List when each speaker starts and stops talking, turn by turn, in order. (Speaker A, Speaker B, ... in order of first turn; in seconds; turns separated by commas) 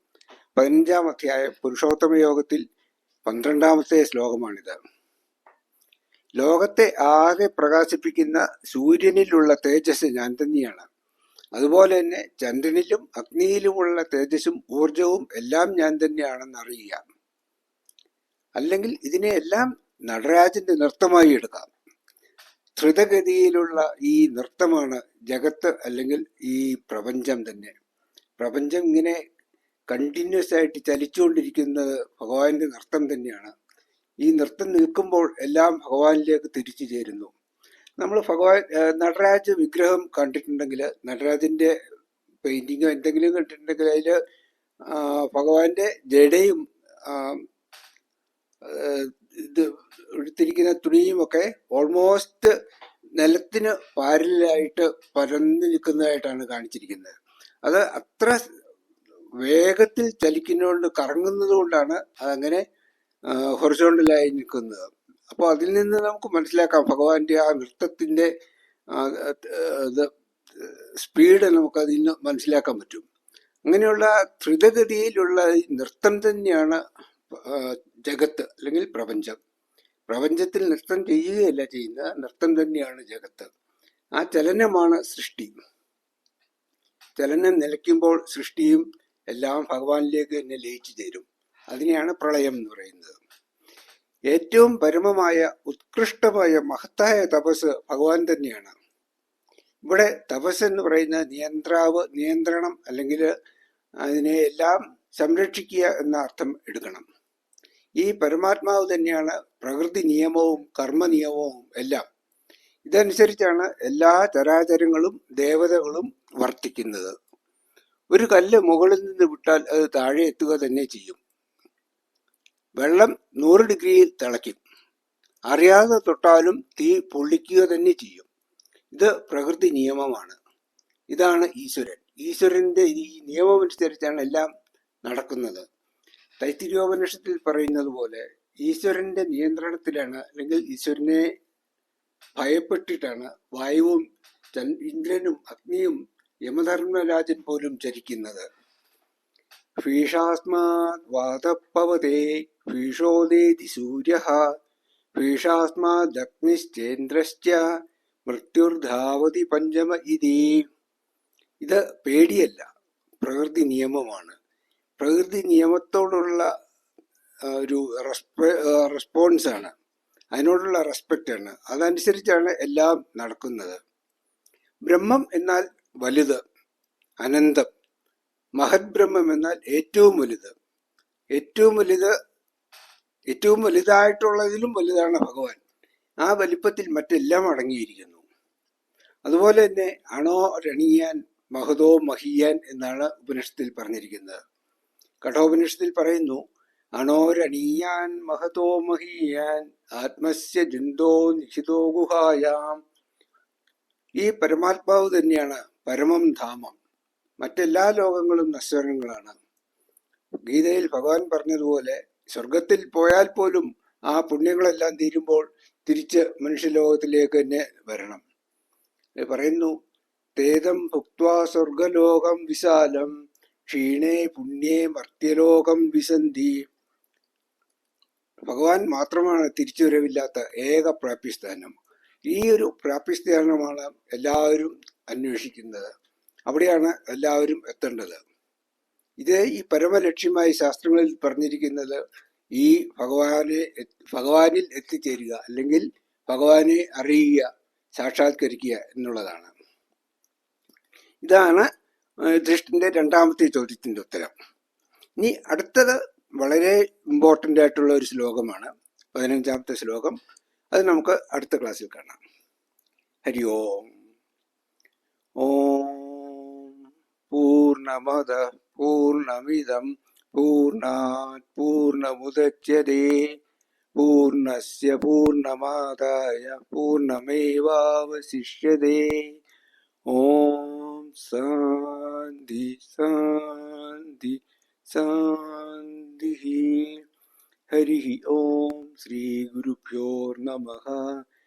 Speaker A: 0.6-2.6, Speaker A: 3.2-4.8, Speaker A: 6.4-10.8, Speaker A: 11.5-17.0, Speaker A: 18.6-21.7, Speaker A: 22.8-27.7, Speaker A: 28.4-29.2, Speaker A: 29.9-33.5, Speaker A: 34.2-37.3, Speaker A: 38.0-41.7, Speaker A: 42.4-44.1, Speaker A: 44.9-47.4, Speaker A: 48.6-52.5, Speaker A: 53.2-57.1, Speaker A: 57.6-58.4, Speaker A: 59.4-62.6, Speaker A: 63.3-68.3, Speaker A: 68.9-73.0, Speaker A: 73.7-76.8, Speaker A: 77.3-79.3, Speaker A: 80.1-83.5, Speaker A: 84.2-85.5, Speaker A: 87.2-93.1, Speaker A: 94.3-98.7, Speaker A: 99.9-103.3, Speaker A: 104.1-107.0, Speaker A: 108.0-112.0, Speaker A: 112.8-117.1, Speaker A: 118.1-121.2, Speaker A: 122.8-124.6, Speaker A: 125.5-128.2, Speaker A: 128.9-130.3, Speaker A: 131.1-134.4, Speaker A: 135.0-135.6, Speaker A: 136.4-141.2, Speaker A: 142.4-144.0, Speaker A: 144.5-145.9, Speaker A: 146.5-148.4, Speaker A: 149.8-154.4, Speaker A: 155.2-157.6, Speaker A: 158.3-160.6, Speaker A: 161.6-162.6, Speaker A: 163.2-164.3, Speaker A: 165.0-166.5, Speaker A: 167.5-169.7, Speaker A: 170.3-173.8, Speaker A: 174.9-176.4, Speaker A: 177.2-177.7, Speaker A: 178.6-180.5, Speaker A: 181.3-182.1, Speaker A: 183.3-185.6, Speaker A: 186.2-188.2, Speaker A: 189.2-194.4, Speaker A: 195.2-196.4, Speaker A: 197.0-202.8, Speaker A: 204.2-206.8, Speaker A: 207.4-209.3, Speaker A: 210.5-218.2, Speaker A: 219.2-219.7, Speaker A: 220.4-223.1, Speaker A: 223.7-226.6, Speaker A: 228.4-231.8, Speaker A: 232.3-235.9, Speaker A: 236.5-238.2, Speaker A: 239.2-242.0, Speaker A: 242.6-249.5, Speaker A: 251.2-251.7, Speaker A: 252.3-254.3, Speaker A: 255.2-260.1, Speaker A: 260.7-262.2, Speaker A: 263.2-263.9, Speaker A: 265.4-266.7, Speaker A: 267.3-273.2, Speaker A: 273.9-279.4, Speaker A: 280.1-287.0, Speaker A: 287.7-291.2